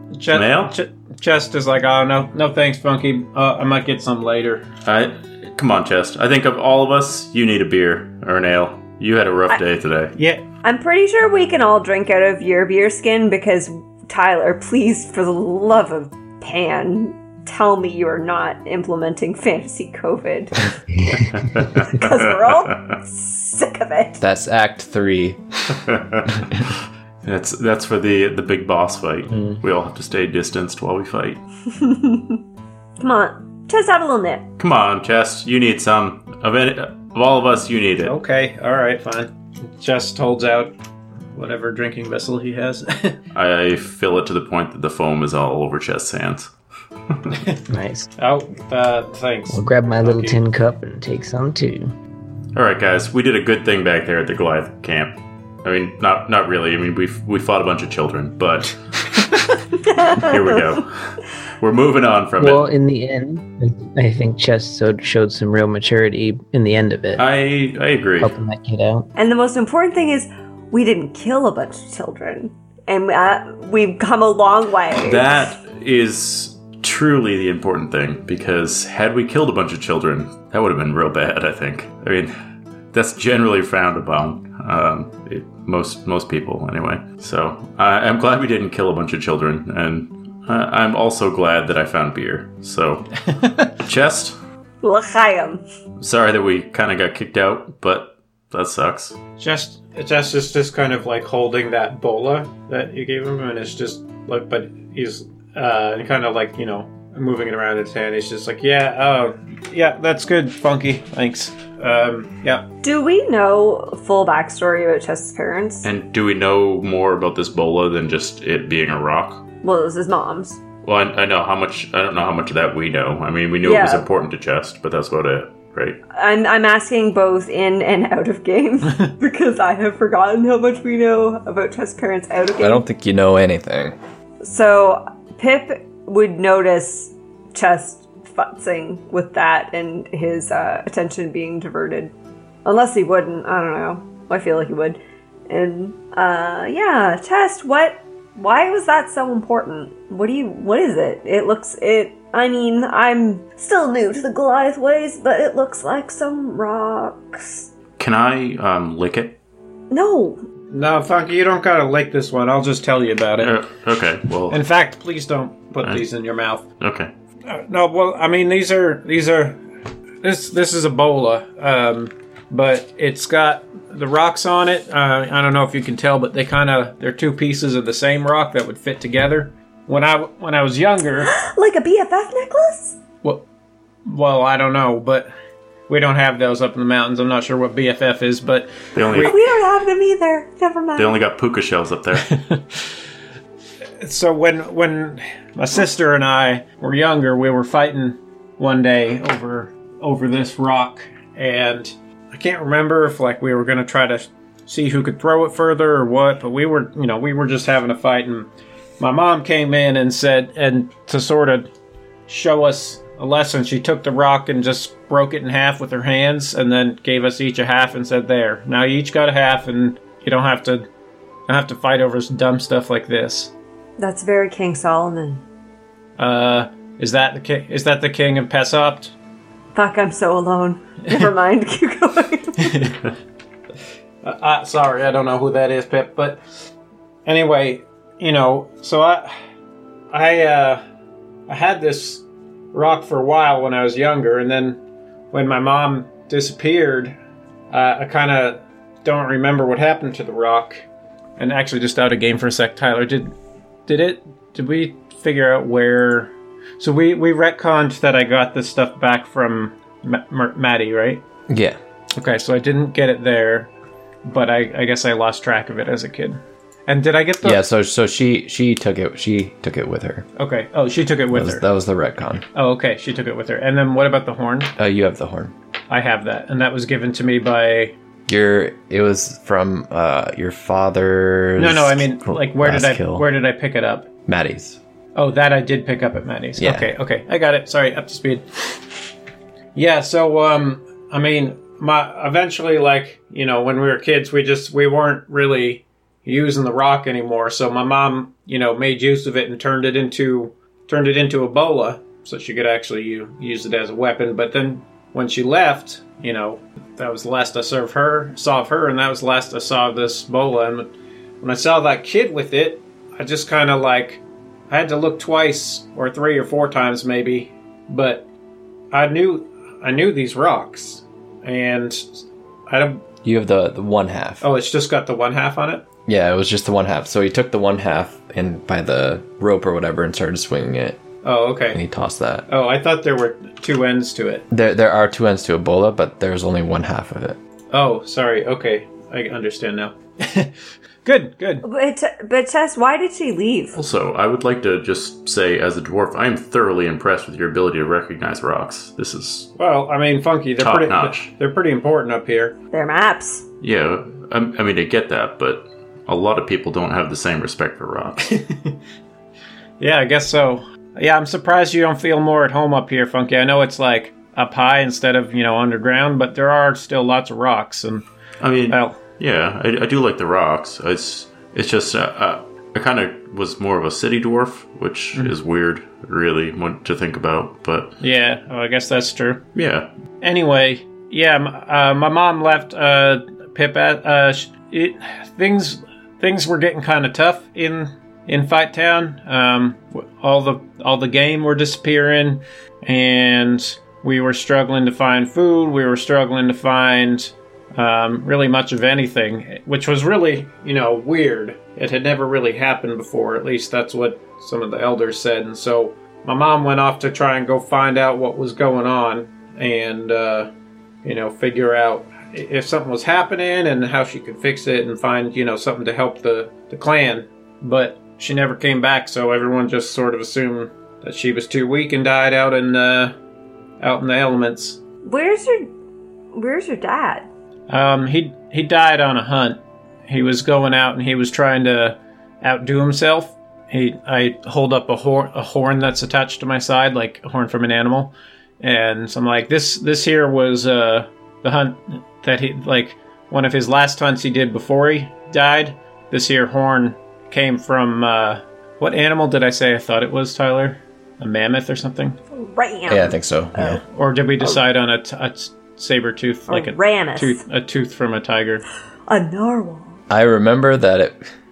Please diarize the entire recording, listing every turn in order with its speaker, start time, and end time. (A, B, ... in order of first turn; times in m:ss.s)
0:00.1-0:04.6 A
0:00.3-0:00.7 B
0:04.8-0:10.1 B
0:10.2-0:10.4 A
0:10.6-0:20.7 C
0:21.1-0:22.9 B
0:21.8-0:24.2 C
0:24.2-0:25.4 D
0:25.7-0:26.6 B
0:27.2-0:31.4 B
0:31.7-0:32.4 C
0:33.0-0:34.4 C
0:34.6-0:38.2 B
0:38.0-0:40.7 A
0:41.3-0:43.2 A
0:43.3-0:46.5 B
0:47.1-0:47.4 B
0:47.7-0:48.1 E
0:48.2-0:50.4 A
0:49.5-0:51.9 E
0:52.5-0:58.8 B
0:59.8-1:00.8 C
1:00.0-1:02.7 B
1:02.4-1:07.2 E
1:07.2-1:08.3 B
1:08.2-1:09.1 E
1:09.2-1:15.5 C
1:15.0-1:22.3 B
1:22.9-1:33.1 B
1:33.4-1:33.7 A
1:33.8-1:34.4 B
1:34.8-1:35.6 C
1:36.0-1:39.2 B
1:39.4-1:52.6 A
1:52.8-1:55.9 C
1:55.8-1:59.4 B
1:59.6-2:00.6 C
2:00.8-2:06.0 B
2:03.6-2:04.0 C
2:06.1-2:12.8 C
2:12.6-2:14.0 D
2:14.4-2:22.1 C
2:22.6-2:37.7 C
2:38.0-2:39.4 B
2:39.9-2:40.4 C
2:40.7-2:43.6 A
2:43.4-2:44.6 B
2:44.5-2:46.6 A
2:46.8-2:47.1 B
2:47.5-2:49.6 A
2:50.2-3:01.3 A
3:01.2-3:03.0 C
3:04.0-3:05.3 A
3:05.9-3:09.3 A
3:08.9-3:09.3 B
3:09.1-3:11.2 C
3:11.0-3:12.3 B
3:12.3-3:12.9 A
3:14.0-3:28.5 A
3:29.0-3:31.7 A
3:32.3-3:40.9 A
3:41.5-3:43.5 A
3:44.0-3:45.4 C
3:46.2-3:49.1 A
3:49.7-3:53.0 C
3:52.6-3:52.9 A
3:54.2-3:56.4 A
3:57.2-3:59.3 A
4:00.1-4:00.8 A
4:01.5-4:04.8 A
4:05.3-4:07.2 A
4:07.7-4:10.8 A
4:11.4-4:13.3 A
4:13.9-4:21.2 A
4:21.5-4:21.8 D
4:22.2-4:23.7 A
4:24.2-4:27.6 A
4:27.4-4:30.2 D
4:30.4-4:31.6 A
4:31.3-4:32.4 D
4:32.5-4:34.7 A
4:34.8-4:35.5 D
4:35.9-4:37.9 A
4:38.3-4:43.3 D
4:41.6-4:44.1 A
4:44.2-4:44.8 D
4:45.1-4:48.9 A
4:46.6-4:46.9 D
4:49.7-5:10.9 A
5:11.4-5:18.2 A
5:18.9-5:23.0 A
5:23.2-5:24.4 D
5:24.4-5:25.8 A
5:26.0-5:31.0 D
5:31.2-5:31.8 A
5:31.7-5:32.5 D
5:32.5-5:34.4 A
5:34.5-5:37.4 D
5:37.7-5:40.5 A
5:41.0-5:41.6 A
5:41.6-5:43.8 C
5:43.7-5:49.5 B
5:49.6-5:52.5 A
5:50.6-5:51.3 B
5:52.7-5:53.4 C
5:53.6-5:58.3 B
5:58.2-5:58.8 A
5:59.8-6:08.0 A
6:08.4-6:18.0 B
6:08.7-6:09.0 A
6:18.0-6:19.5 A
6:19.5-6:19.9 B
6:20.2-6:50.5 A
6:51.0-7:03.1 A
7:03.8-7:04.8 A
7:05.0-7:05.7 C
7:06.3-7:07.3 C
7:07.7-7:32.2 A
7:32.3-7:33.8 C
7:32.9-7:33.8 D
7:33.8-7:38.6 A
7:36.5-7:37.4 C
7:39.1-7:40.0 C
7:40.1-7:41.3 D